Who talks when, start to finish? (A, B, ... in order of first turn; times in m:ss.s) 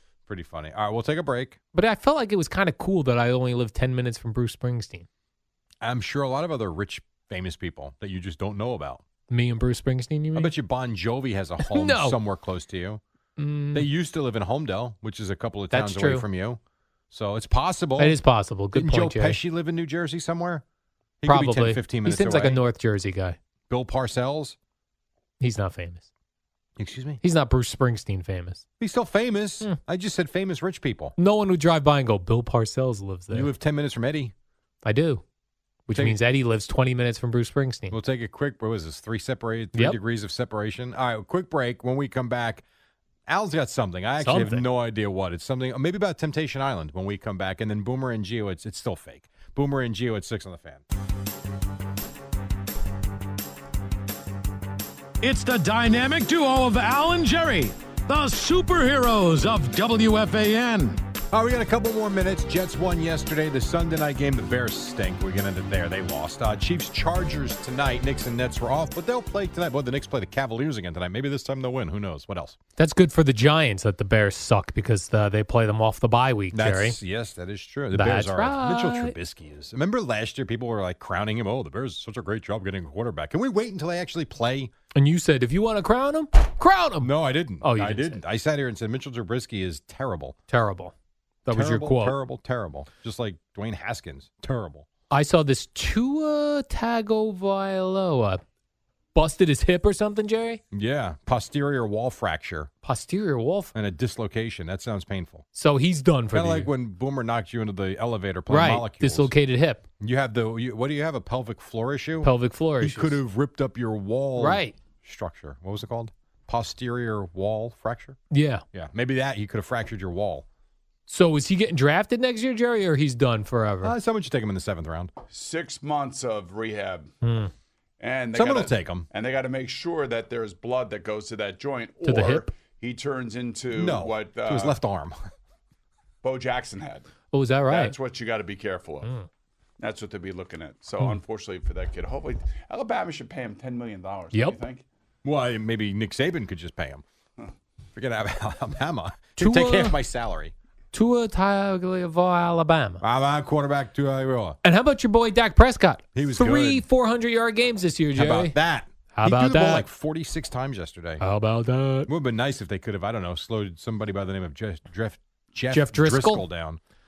0:00.3-0:01.6 A
0:01.7-0:05.1 B
0:05.8-0:09.0 A
0:09.3-0:10.5 B
0:10.3-0:13.0 A
0:11.6-0:12.2 B
0:13.4-0:13.9 B
0:13.7-0:16.6 A
0:15.7-0:16.2 B
0:17.1-0:18.2 A
0:18.0-0:19.4 B
0:18.7-0:20.6 A
0:21.2-0:22.6 A
0:21.3-0:23.4 B
0:23.7-0:24.6 A
0:25.4-0:26.1 B
0:26.8-0:27.2 A
0:27.2-0:28.6 B
0:28.8-0:31.2 A
0:31.2-0:33.5 B
0:33.3-0:34.3 A
0:34.8-0:35.2 B
0:35.9-0:38.0 B
0:35.9-0:36.2 A
0:37.9-0:42.6 A
0:43.3-0:50.8 A
0:44.2-0:44.6 B
0:55.2-1:01.0 C
1:01.3-1:12.6 A
1:12.8-1:17.0 B
1:16.5-1:24.7 A
1:17.9-1:19.2 B
1:25.0-1:28.2 B
1:27.0-1:30.4 A
1:30.5-1:30.9 B
1:31.5-1:32.2 B
1:31.5-1:34.9 A
1:35.1-1:38.4 B
1:39.1-1:40.6 B
1:40.7-1:42.7 A
1:42.8-1:43.7 B
1:43.7-1:45.4 A
1:45.5-1:46.7 B
1:46.3-1:49.3 A
1:48.5-1:49.8 B
1:50.0-1:58.2 A
1:52.2-1:53.2 B
1:54.4-1:54.8 B
1:58.3-1:58.6 B
1:58.7-2:00.5 A
2:01.1-2:04.0 B
2:03.8-2:05.1 A
2:05.3-2:07.1 D
2:07.2-2:07.5 B
2:08.0-2:14.8 D
2:08.3-2:09.1 A
2:12.0-2:12.5 B
2:13.7-2:15.2 A
2:16.2-2:17.1 D
2:17.3-2:18.0 B
2:17.7-2:19.1 D
2:19.8-2:24.8 D
2:24.3-2:24.6 B
2:25.2-2:27.0 A
2:27.9-2:30.5 A
2:29.4-2:30.0 B
2:30.9-2:33.0 B
2:33.0-2:34.6 A
2:34.6-2:38.6 B
2:36.2-2:36.8 A
2:38.2-2:41.2 A
2:39.1-2:39.9 B
2:41.2-2:42.1 B
2:42.1-2:46.8 A
2:45.7-2:46.5 B